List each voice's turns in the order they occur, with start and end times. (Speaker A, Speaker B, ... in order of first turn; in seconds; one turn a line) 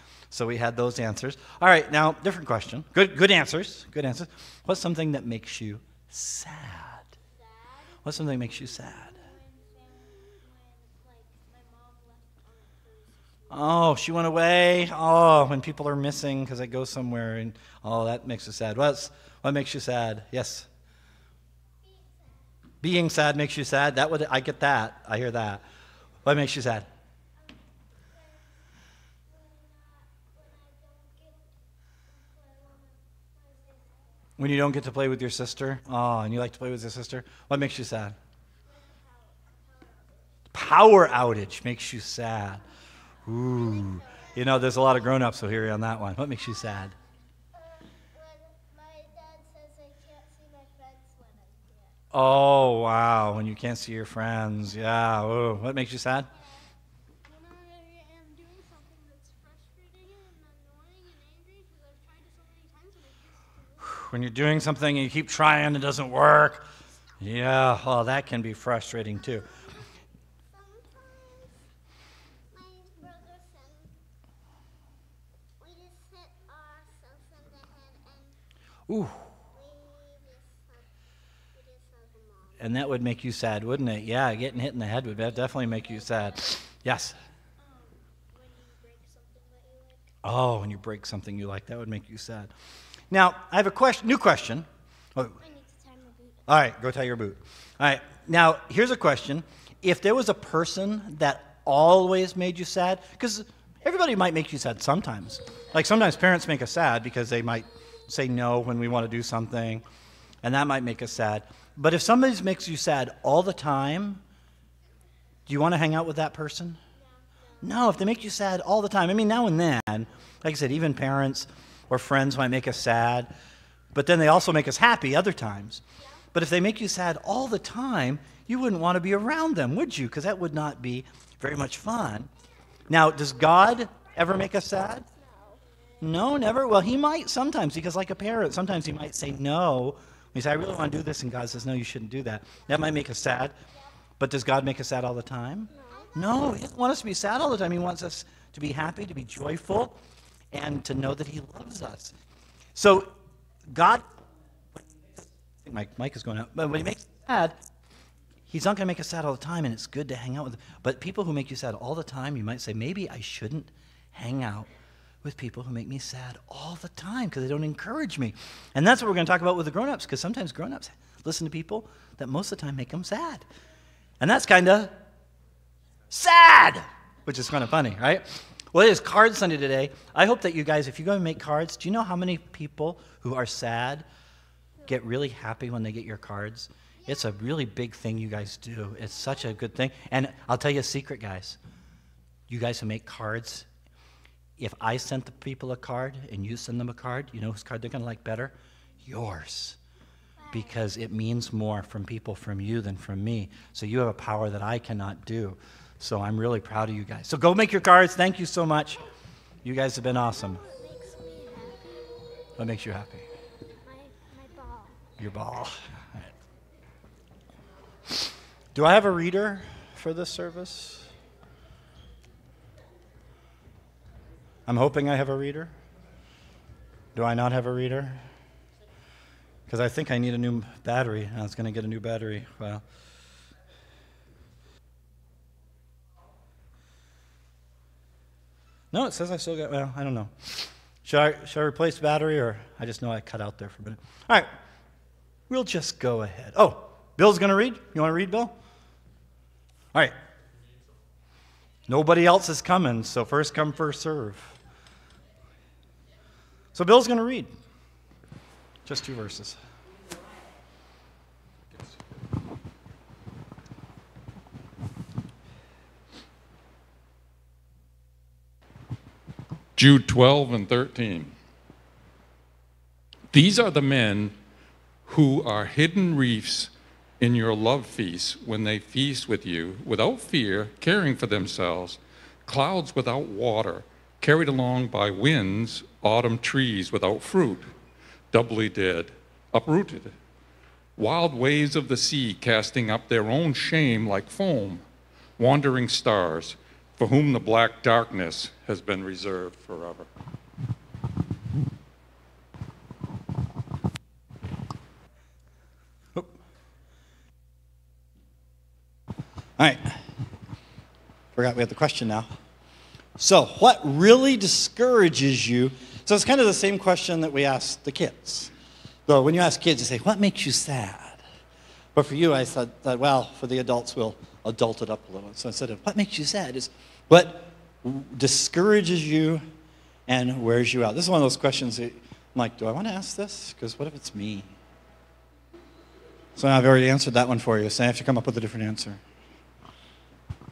Speaker A: 0.3-7.1
Speaker B: 7.3-13.8
Speaker A: 8.0-9.1
Speaker A: 13.5-20.7
Speaker B: 21.8-22.5
Speaker A: 22.8-25.6
Speaker A: 26.2-26.9
Speaker B: 28.1-28.5
Speaker B: 29.3-31.5
Speaker B: 32.1-34.1
Speaker A: 34.4-38.1
Speaker B: 38.6-40.1
Speaker A: 40.5-42.6
Speaker A: 43.2-46.9
Speaker B: 43.4-45.1
Speaker B: 46.5-46.9
Speaker B: 47.5-52.0
Speaker A: 52.1-56.3
Speaker B: 57.2-64.0
Speaker A: 63.9-66.7
Speaker A: 67.2-69.4
Speaker B: 70.5-71.6
Speaker B: 72.5-74.0
Speaker B: 75.6-78.3
Speaker A: 78.9-79.3
Speaker B: 79.5-80.9
Speaker B: 81.5-82.7
Speaker A: 82.6-87.2
Speaker B: 85.3-86.6
Speaker B: 87.6-90.1
Speaker A: 90.2-92.5
Speaker A: 93.1-95.4
Speaker B: 95.4-96.5
Speaker A: 96.5-109.8
Speaker A: 110.4-114.2
Speaker A: 115.5-116.8
Speaker B: 116.9-117.7
Speaker A: 117.6-123.3
Speaker A: 123.9-125.8
Speaker A: 126.3-132.3
Speaker A: 132.9-135.1
Speaker B: 135.1-136.1
Speaker A: 136.0-143.6
Speaker B: 142.6-142.9
Speaker A: 144.2-150.0
Speaker B: 145.7-146.3
Speaker A: 150.5-152.1
Speaker A: 152.7-153.1
Speaker A: 153.7-154.1
Speaker A: 154.8-157.6
Speaker A: 158.5-164.7
Speaker A: 165.2-173.4
Speaker A: 174.2-174.9
Speaker A: 176.1-184.1
Speaker A: 184.8-191.6
Speaker B: 187.0-187.3
Speaker A: 192.5-193.7
Speaker A: 194.6-199.8
Speaker B: 200.4-200.9
Speaker A: 200.5-209.0
Speaker A: 209.6-210.6
Speaker B: 210.1-212.1
Speaker A: 212.6-213.2
Speaker B: 213.8-215.0
Speaker A: 215.2-215.8
Speaker A: 218.7-221.1
Speaker A: 224.7-225.7
Speaker A: 227.2-228.2
Speaker A: 229.7-232.8
Speaker A: 238.9-244.5
Speaker A: 245.5-248.5
Speaker A: 251.9-254.5
Speaker A: 256.7-257.5
Speaker A: 258.9-259.6
Speaker C: 269.8-271.3
Speaker C: 273.3-274.4
Speaker C: 275.1-287.7
Speaker C: 288.3-290.1
Speaker C: 291.0-294.9
Speaker C: 295.4-300.1
Speaker A: 309.6-310.0
Speaker A: 311.4-312.3
Speaker A: 313.2-318.5
Speaker A: 319.1-321.2
Speaker A: 321.9-329.5
Speaker A: 330.1-334.5
Speaker A: 336.4-339.0